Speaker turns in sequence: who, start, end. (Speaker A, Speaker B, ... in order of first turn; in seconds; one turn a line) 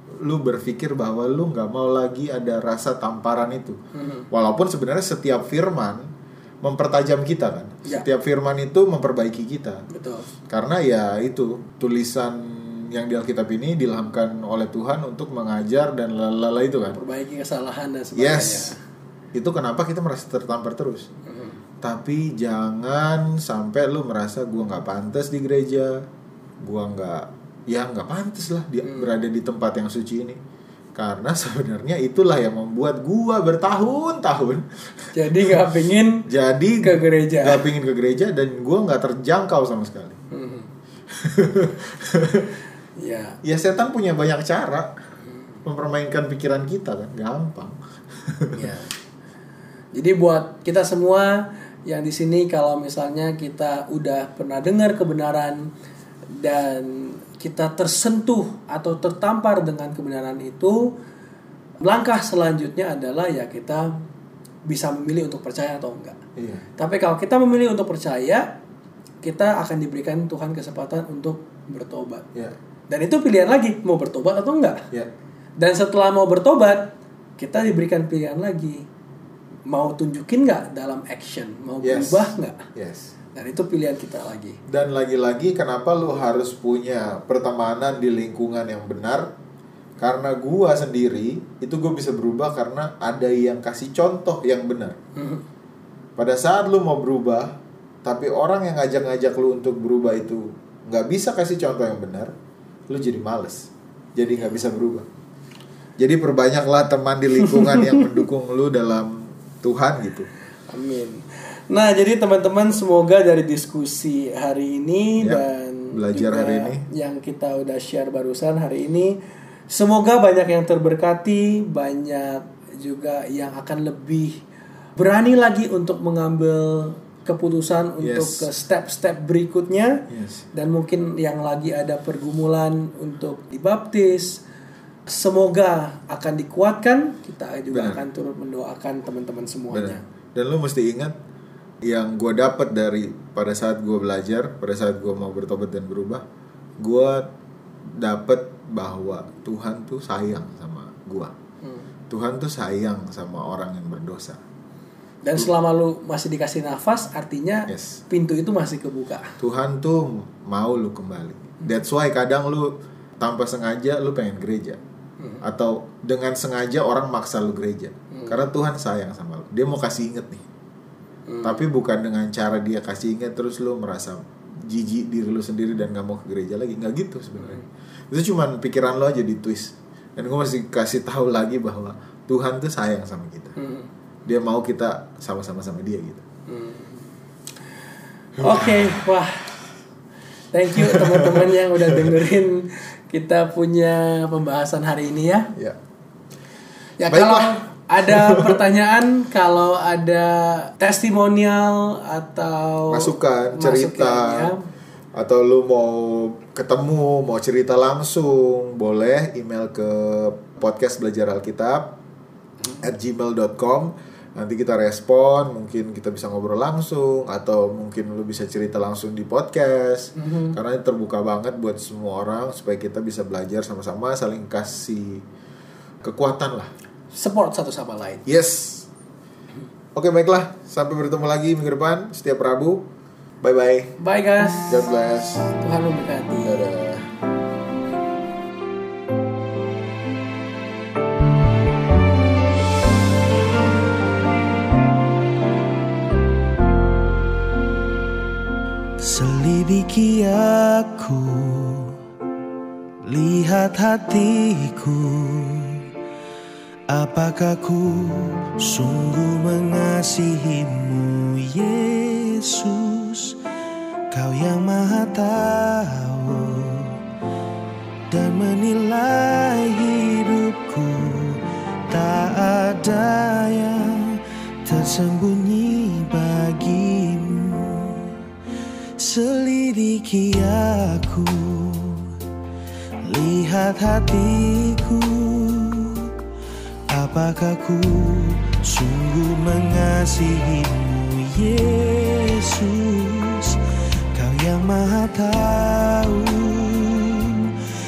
Speaker A: 0.2-3.8
Speaker B: 3.9-4.3
Speaker A: 4.3-6.0
Speaker A: 6.6-9.8
Speaker B: 9.9-10.2
Speaker A: 10.5-17.0
Speaker B: 16.9-18.8
Speaker A: 18.1-18.7
Speaker A: 19.3-21.1
Speaker B: 21.3-21.6
Speaker A: 21.8-26.0
Speaker A: 26.6-30.4
Speaker B: 28.8-29.1
Speaker A: 30.9-35.6
Speaker B: 35.1-36.2
Speaker A: 36.3-40.2
Speaker B: 36.8-37.6
Speaker B: 40.3-40.7
Speaker A: 41.1-42.5
Speaker B: 43.0-43.4
Speaker A: 43.4-44.9
Speaker A: 45.6-48.7
Speaker B: 48.5-48.9
Speaker B: 49.9-55.7
Speaker B: 56.3-60.9
Speaker B: 61.8-63.9
Speaker B: 64.7-66.2
Speaker A: 66.3-66.6
Speaker B: 66.8-68.5
Speaker B: 69.2-72.2
Speaker B: 72.9-74.8
Speaker B: 75.6-78.8
Speaker B: 79.7-82.7
Speaker A: 81.8-83.1
Speaker B: 83.3-84.6
Speaker A: 84.7-89.3
Speaker A: 90.0-95.0
Speaker B: 95.2-95.4
Speaker A: 96.2-102.3
Speaker A: 102.9-105.1
Speaker A: 106.0-110.3
Speaker B: 107.4-108.1
Speaker B: 110.7-119.1
Speaker A: 115.2-116.8
Speaker B: 119.7-124.4
Speaker B: 125.0-134.4
Speaker A: 128.0-128.5
Speaker A: 130.1-130.4
Speaker B: 135.1-140.0
Speaker A: 137.7-138.0
Speaker A: 139.7-141.1
Speaker A: 141.8-146.2
Speaker A: 146.8-147.3
Speaker A: 147.8-151.3
Speaker A: 152.1-154.4
Speaker B: 155.2-159.2
Speaker A: 157.7-158.0
Speaker A: 159.4-164.8
Speaker A: 165.4-170.4
Speaker B: 168.1-168.4
Speaker B: 171.3-171.6
Speaker A: 171.4-183.6
Speaker B: 183.6-183.9
Speaker A: 184.2-186.2
Speaker B: 186.5-187.1
Speaker A: 188.4-189.1
Speaker B: 188.4-189.5
Speaker B: 190.5-195.5
Speaker A: 190.7-192.2
Speaker B: 197.0-204.6
Speaker A: 197.1-198.6
Speaker A: 202.9-204.5
Speaker A: 205.1-211.9
Speaker A: 212.8-225.2
Speaker B: 220.2-220.6
Speaker A: 226.0-226.7
Speaker B: 227.1-228.2
Speaker A: 228.2-228.9
Speaker A: 229.9-232.9
Speaker A: 233.4-233.9
Speaker B: 234.0-234.9
Speaker A: 234.7-235.5
Speaker B: 235.6-236.7
Speaker A: 236.4-237.1
Speaker C: 249.0-252.0
Speaker C: 253.0-255.9
Speaker C: 256.9-263.4
Speaker C: 264.1-267.0
Speaker C: 268.1-278.1
Speaker C: 279.0-282.1
Speaker C: 283.0-286.1
Speaker C: 286.9-293.6
Speaker C: 294.1-297.5